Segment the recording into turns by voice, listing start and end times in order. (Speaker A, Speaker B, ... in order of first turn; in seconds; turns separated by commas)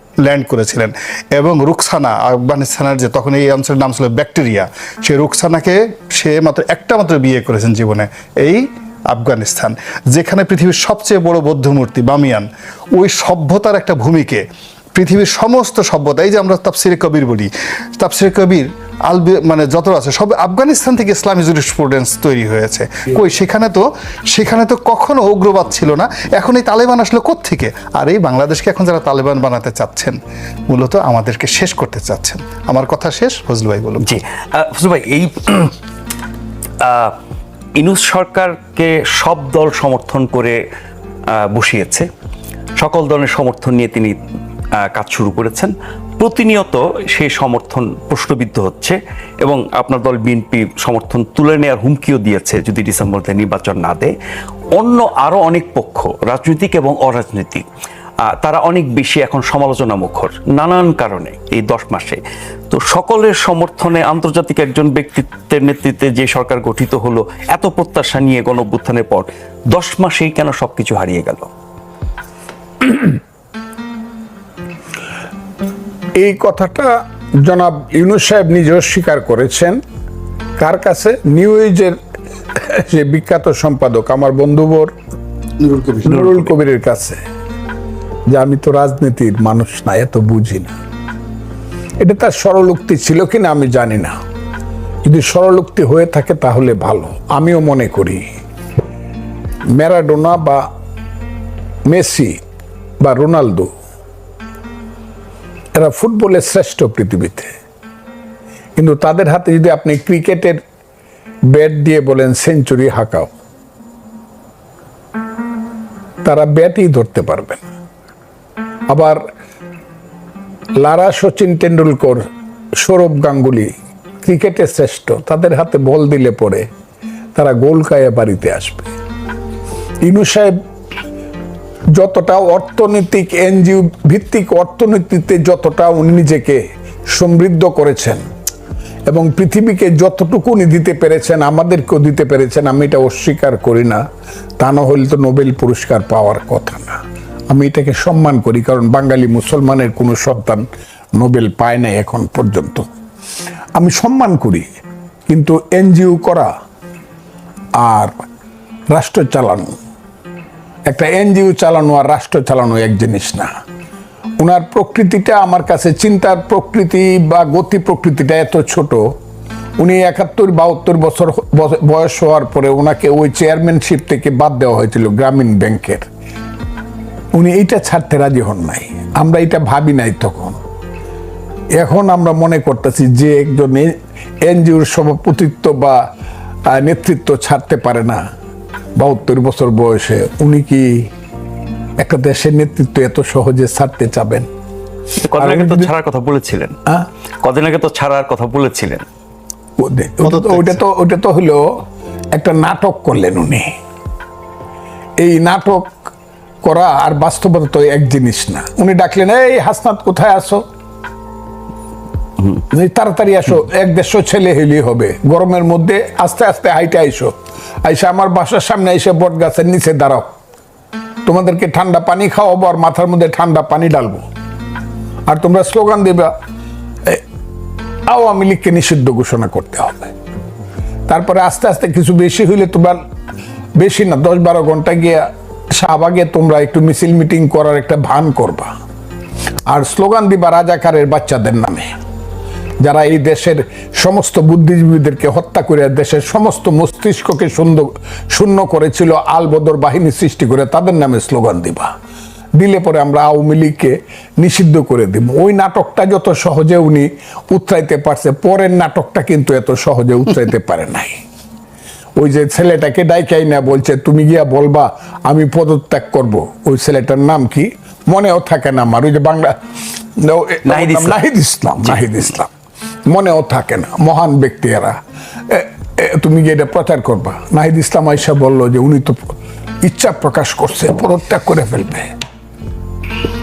Speaker A: 0.2-14.4, Speaker A: 14.9-30.2, Speaker A: 30.7-34.1, Speaker B: 34.0-35.8, Speaker B: 36.8-37.2, Speaker B: 37.8-40.6, Speaker B: 41.5-42.1, Speaker B: 42.8-44.2, Speaker B: 44.9-54.1, Speaker B: 54.8-57.7, Speaker B: 58.3-62.2, Speaker B: 62.7-71.5, Speaker C: 76.2-79.8, Speaker C: 80.6-82.0, Speaker C: 82.6-84.9, Speaker A: 85.6-86.4, Speaker C: 86.0-87.2, Speaker C: 88.3-90.7, Speaker C: 92.0-94.2, Speaker C: 95.0-98.2, Speaker C: 99.8-100.7, Speaker C: 101.9-102.4, Speaker C: 103.0-103.7, Speaker C: 105.8-107.5, Speaker C: 108.8-110.6, Speaker C: 111.5-113.3, Speaker C: 116.2-117.6, Speaker C: 118.9-119.2, Speaker C: 120.8-122.2, Speaker C: 122.8-126.7, Speaker C: 127.4-128.9, Speaker C: 130.0-130.6, Speaker C: 132.0-138.2, Speaker C: 139.1-144.0, Speaker C: 144.6-147.0, Speaker C: 147.5-150.7, Speaker C: 151.2-152.9, Speaker C: 153.8-154.7, Speaker C: 155.3-156.5, Speaker C: 157.8-158.2, Speaker C: 158.9-159.8, Speaker C: 160.9-163.5, Speaker C: 164.4-169.1, Speaker C: 169.8-176.1, Speaker C: 177.3-180.6, Speaker C: 181.8-186.0, Speaker C: 186.7-188.2, Speaker C: 189.0-191.1, Speaker C: 192.0-194.5, Speaker B: 195.2-196.7, Speaker C: 195.4-195.9, Speaker B: 197.4-199.1, Speaker C: 199.8-201.6, Speaker A: 200.2-200.8, Speaker C: 202.3-203.7, Speaker C: 205.2-205.9, Speaker C: 206.6-210.6, Speaker C: 212.6-217.3, Speaker C: 217.8-220.3, Speaker C: 221.3-224.2, Speaker C: 225.3-226.3, Speaker C: 228.1-230.1, Speaker C: 231.1-233.0, Speaker C: 233.8-238.7, Speaker C: 239.7-241.9, Speaker C: 242.8-251.9, Speaker C: 252.6-261.2, Speaker C: 262.2-269.6, Speaker C: 270.2-272.5, Speaker B: 270.7-271.2, Speaker C: 273.1-275.0, Speaker C: 275.5-279.2, Speaker C: 279.8-282.1